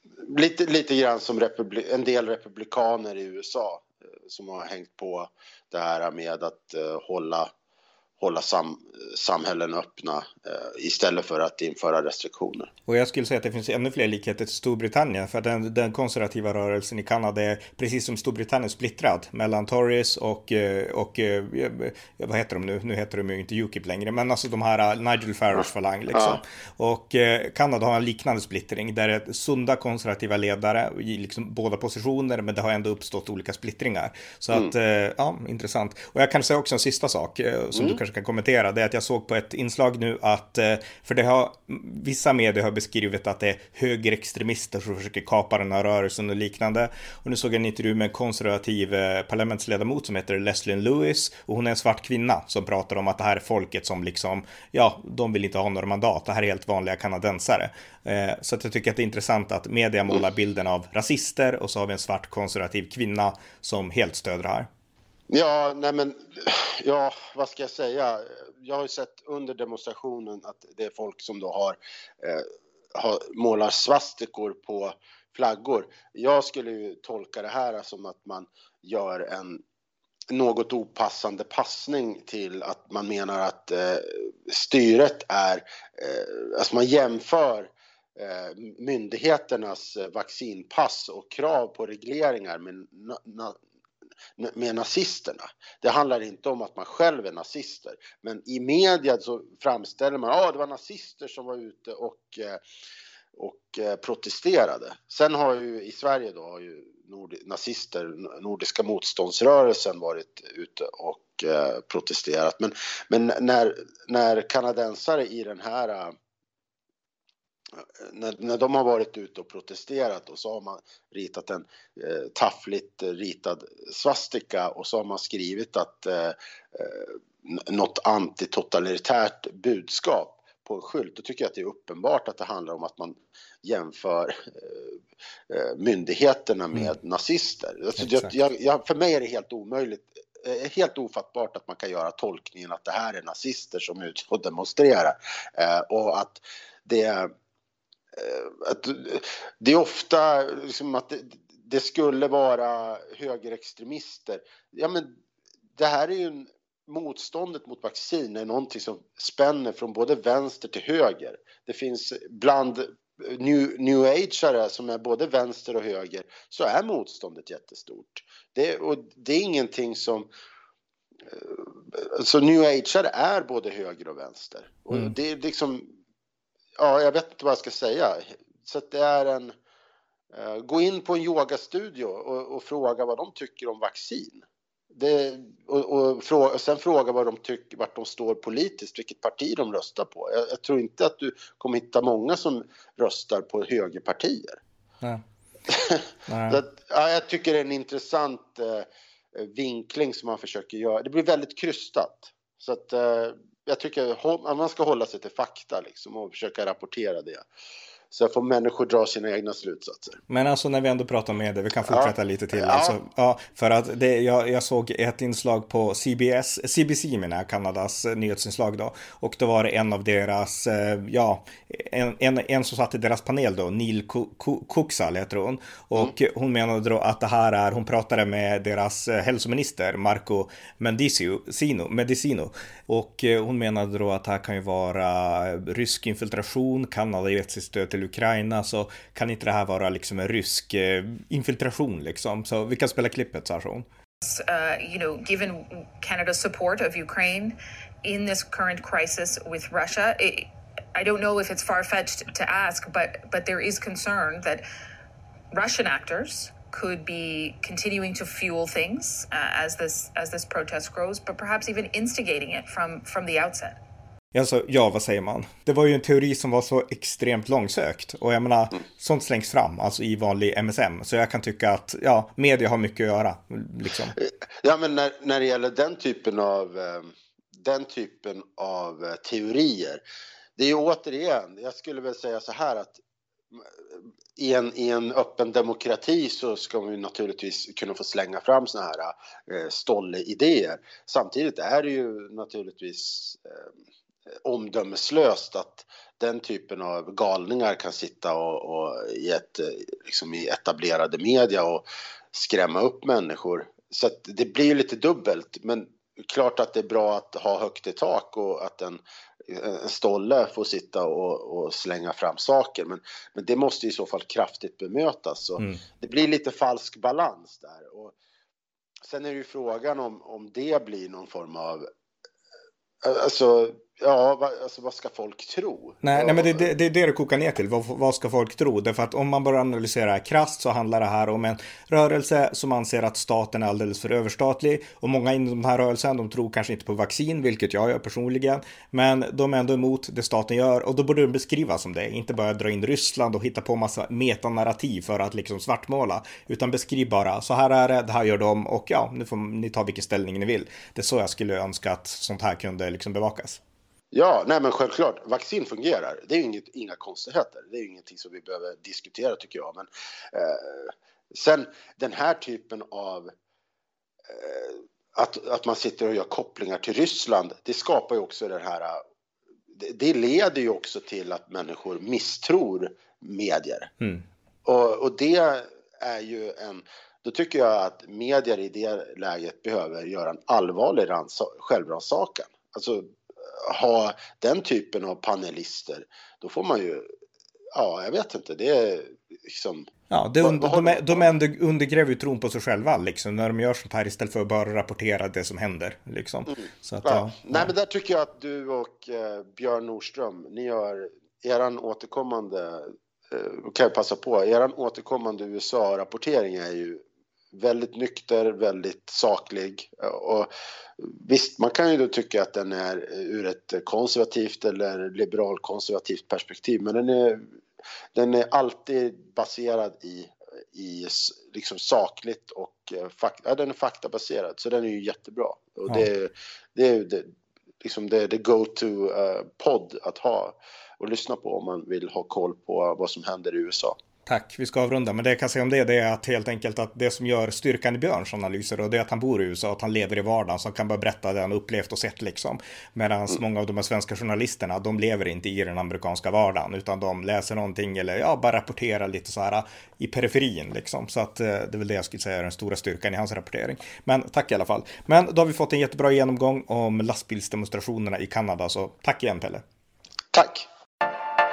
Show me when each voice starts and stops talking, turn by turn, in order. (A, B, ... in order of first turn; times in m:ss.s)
0:00.2-0:07.5 A
0:08.2-0:12.7 A
0:12.9-1:04.7 B
0:37.7-0:38.0 A
1:05.3-1:19.6 A
1:20.3-1:33.6 A
1:34.4-1:42.6 A
1:43.4-1:56.2 A
1:57.8-2:15.0 A
2:15.5-2:27.3 A
2:18.0-2:18.3 B
2:28.2-2:35.2 A
2:35.8-2:50.3 A
2:51.3-2:55.9 A
2:56.8-2:59.6 A
3:00.3-3:14.6 A
3:15.7-3:27.5 A
3:16.3-3:16.6 B
3:28.1-3:30.2 A
3:30.3-4:03.9 B
3:31.9-3:33.0 A
4:04.2-4:14.6 C
4:15.5-4:23.8 C
4:24.3-4:34.2 B
4:34.2-4:40.0 A
4:40.6-4:43.0 A
4:43.6-4:53.7 A
4:54.4-5:18.2 A
5:19.1-5:21.9 A
5:23.0-5:26.7 A
5:26.0-5:53.6 B
5:54.1-6:03.3 A
6:04.3-6:09.0 A
6:09.7-6:13.9 A
6:14.6-6:27.1 A
6:27.8-6:29.9 A
6:30.1-6:37.7 B
6:30.4-6:31.3 A
6:36.5-6:57.5 A
6:58.2-7:14.0 A
7:14.3-7:39.6 B
7:40.3-7:40.7 A